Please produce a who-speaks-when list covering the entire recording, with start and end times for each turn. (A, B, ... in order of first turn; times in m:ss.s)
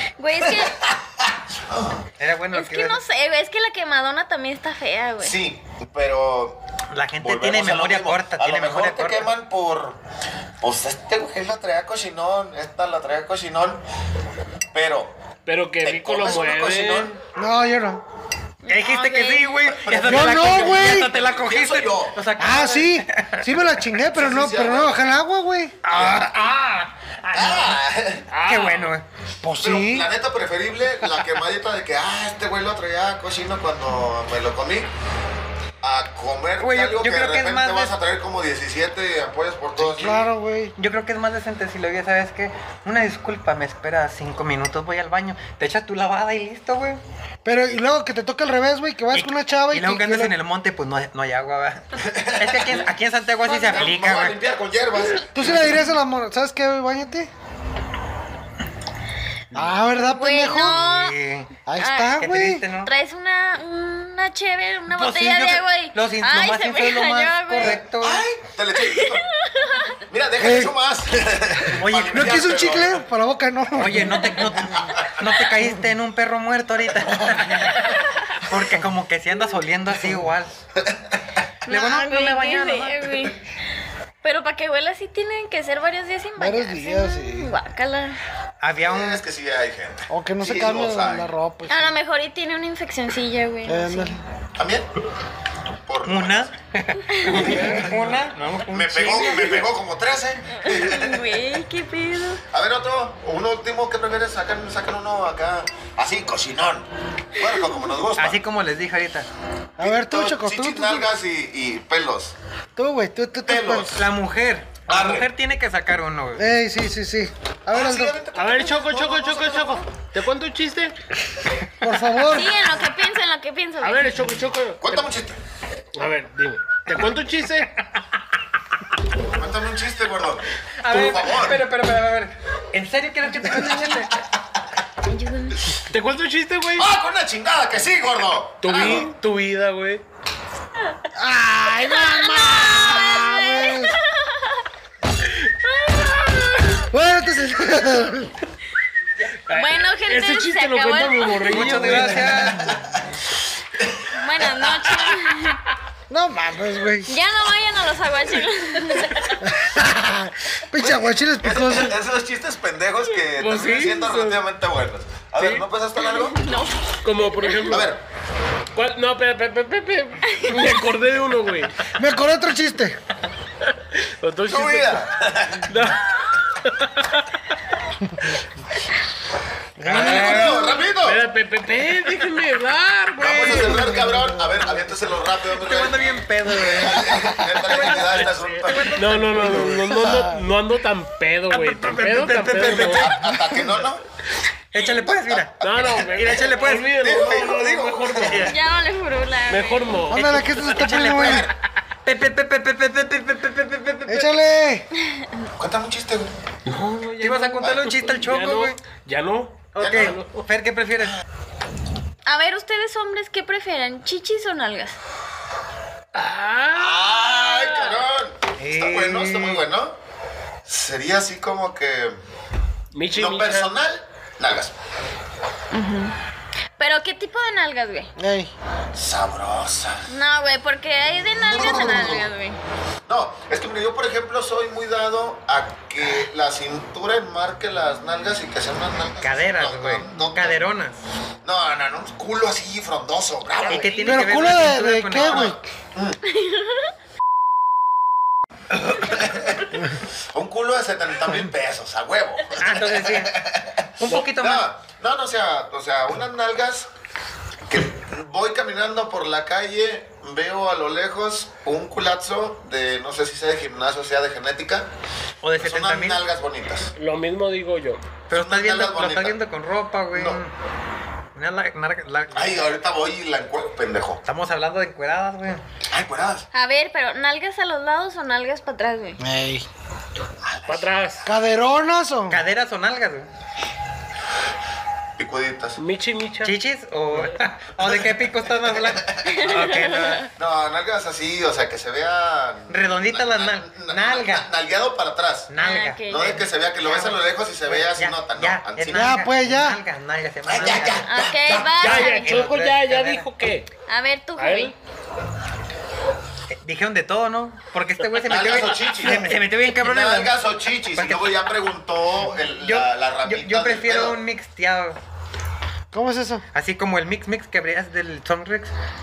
0:00.2-0:00.8 A
0:00.4-0:02.1 B
0:02.2-0:03.0 C
0:02.5-0:05.4 A
0:05.2-0:06.6 B
0:06.9-0:09.3 C
0:07.2-0:10.0 B
0:10.6-0:13.8 B
0:14.7-0:15.1 B
0:15.5-0:17.2 D
0:15.8-0:17.2 B
0:17.4-0:18.0 E
0:18.6-0:19.6 A
0:18.7-0:23.8 C
0:19.7-0:22.3 B
0:20.0-0:21.1 E
0:22.4-0:25.8 E
0:24.1-0:25.0 B
0:25.8-0:27.8 C
0:25.9-0:26.4 B
0:27.3-0:28.3 B
0:28.3-0:29.0 D
0:28.4-0:29.0 C
0:29.4-0:30.1 E
0:29.5-0:34.9 B
0:31.0-0:31.4 C
0:35.8-0:40.3 B
0:36.6-0:37.9 C
0:39.9-0:40.7 E
0:40.8-0:47.0 C
0:47.4-0:50.3 E
0:49.1-0:54.4 C
0:52.0-0:52.9 B
0:53.4-0:55.3 B
0:55.3-0:57.3 E
0:59.5-1:00.8 E
0:59.9-1:01.2 A
1:00.6-1:01.5 C
1:01.7-1:02.7 E
1:01.8-1:02.2 A
1:02.2-1:02.9 C
1:02.8-1:07.8 A
1:04.9-1:08.2 C
1:08.0-1:09.2 B
1:08.8-1:10.0 A
1:10.1-1:13.0 B
1:10.4-1:10.8 E
1:11.7-1:12.5 C
1:12.1-1:14.8 E
1:13.7-1:20.5 C
1:14.7-1:15.1 B
1:20.8-1:21.2 B
1:21.7-1:23.4 A
1:21.7-1:23.3 C
1:24.2-1:28.2 A
1:26.4-1:27.5 E
1:28.6-1:29.2 C
1:28.8-1:31.3 B
1:30.1-1:31.9 E
1:31.7-1:34.2 A
1:33.7-1:34.2 E
1:34.6-1:34.9 B
1:35.9-1:36.5 B
1:36.0-1:39.7 C
1:37.3-1:38.1 B
1:37.3-1:37.8 D
1:38.7-1:41.4 B
1:40.6-1:42.4 A
1:42.5-1:48.4 B
1:48.2-1:49.3 C
1:49.8-1:51.1 E
1:49.8-1:52.3 B
1:52.8-1:53.9 E
1:53.5-1:53.9 B
1:53.9-1:56.6 C
1:54.9-1:55.3 B
1:56.4-1:58.2 E
1:57.7-1:59.9 B
1:58.3-2:00.9 D
2:01.8-2:02.6 E
2:02.2-2:04.3 A
2:03.8-2:05.1 D
2:04.8-2:05.4 B
2:06.0-2:07.7 D
2:09.3-2:11.6 B
2:10.8-2:14.1 C
2:15.1-2:15.7 A
2:15.9-2:16.9 D
2:16.8-2:19.1 B
2:18.6-2:20.0 D
2:21.2-2:24.0 E
2:21.8-2:24.6 A
2:26.0-2:26.6 D
2:26.9-2:28.3 E
2:29.5-2:32.5 D
2:29.5-2:32.2 A
2:31.5-2:32.8 C
2:32.5-2:33.0 B
2:33.8-2:34.9 B
2:34.1-2:35.6 A
2:36.1-2:37.1 E
2:37.1-2:39.4 A
2:39.4-2:42.0 E
2:40.8-2:46.5 B
2:43.3-2:44.4 D
2:45.4-2:45.7 D
2:46.0-2:46.8 A
2:47.0-2:47.9 D
2:47.4-2:47.8 A
2:47.7-2:48.0 B
2:48.8-2:51.9 D
2:50.3-2:50.8 A
2:51.9-2:53.0 E
2:53.6-2:55.1 D
2:54.5-2:55.8 B
2:55.7-2:57.3 D
2:58.1-2:58.3 E
2:59.8-3:00.6 E
2:59.8-3:01.2 B
2:59.9-3:00.7 C
3:01.0-3:03.9 D
3:03.2-3:09.0 B
3:03.7-3:04.4 E
3:05.5-3:10.0 C
3:07.7-3:13.2 D
3:09.6-3:10.3 E
3:11.5-3:13.6 C
3:12.5-3:14.0 B
3:14.7-3:15.5 C
3:14.8-3:18.5 B
3:15.6-3:18.6 D
3:16.1-3:16.9 C
3:18.4-3:20.0 A
3:19.5-3:20.8 D
3:20.1-3:21.5 E
3:20.8-3:21.5 C
3:22.0-3:24.4 C
3:24.1-3:24.9 E
3:25.0-3:25.4 A
3:25.6-3:26.3 B
3:26.7-3:30.4 D
3:27.2-3:28.8 C
3:27.6-3:28.0 B
3:29.8-3:31.2 C
3:29.8-3:30.2 B
3:32.3-3:35.0 A
3:36.1-3:38.1 D
3:36.7-3:40.0 B
3:38.6-3:39.6 C
3:40.7-3:42.2 B
3:42.9-3:43.7 D
3:43.1-3:44.7 B
3:45.7-3:46.2 A
3:46.8-3:48.1 A
3:48.2-3:48.5 E
3:48.9-3:50.1 B
3:50.1-3:52.6 A
3:51.2-3:52.3 B
3:53.1-4:00.6 B
3:59.2-4:01.0 C
4:01.4-4:04.2 B
4:03.7-4:05.6 C
4:04.0-4:05.6 E
4:05.2-4:06.2 B
4:06.3-4:06.7 A
4:09.0-4:09.6 B
4:10.3-4:16.9 B
4:12.6-4:13.4 C
4:14.0-4:14.7 C
4:17.7-4:24.9 B
4:25.4-4:26.2 C
4:25.6-4:26.9 B
4:27.0-4:28.0 D
4:28.3-4:30.5 C
4:28.3-4:29.4 B
4:30.1-4:30.4 B
4:31.4-4:32.8 C
4:32.3-4:34.2 B
4:34.3-4:35.6 C
4:35.9-4:36.5 B
4:36.5-4:39.2 A
4:39.2-4:39.7 E
4:40.4-4:40.8 B
4:40.7-4:41.3 D
4:41.2-4:42.4 E
4:42.3-4:43.3 C
4:45.2-4:45.8 B
4:45.8-4:46.6 D
4:46.4-4:50.3 C
4:47.1-4:47.4 D
4:48.7-4:49.4 B
4:49.2-4:50.2 A
4:50.4-4:55.5 B
4:52.7-4:54.5 C
4:55.5-5:01.1 C
4:55.6-4:56.4 A
4:56.1-4:59.2 B
4:58.9-4:59.8 E
5:00.5-5:01.9 B
5:01.0-5:02.5 A
5:01.8-5:03.7 D
5:01.8-5:03.3 C
5:03.9-5:04.8 A
5:04.4-5:04.8 D
5:06.5-5:10.4 C
5:08.2-5:14.2 B
5:09.0-5:09.4 E
5:10.9-5:11.5 C
5:12.6-5:15.0 C
5:15.9-5:16.4 E
5:16.5-5:18.7 C